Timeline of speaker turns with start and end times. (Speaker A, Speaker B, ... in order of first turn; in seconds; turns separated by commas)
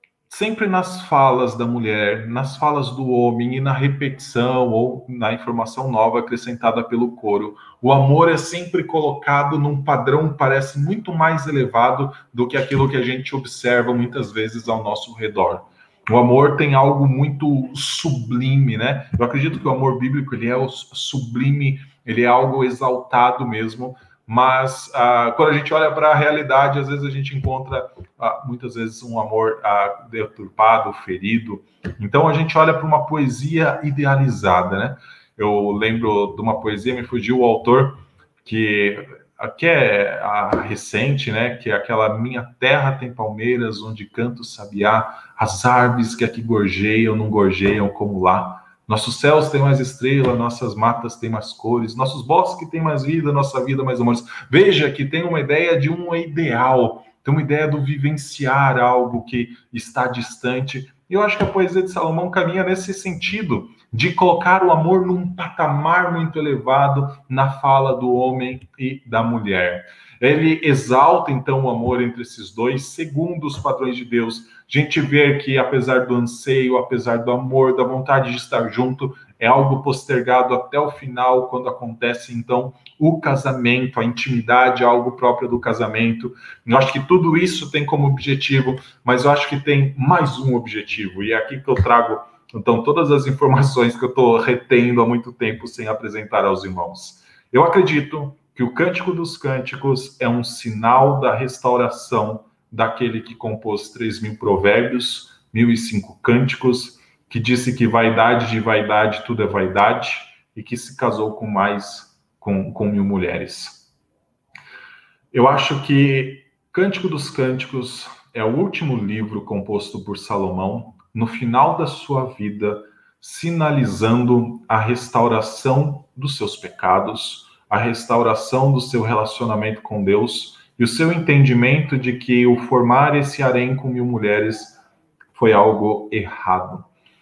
Speaker A: 0.3-113.9, Speaker A: 115.3-134.8, Speaker A: 135.3-136.8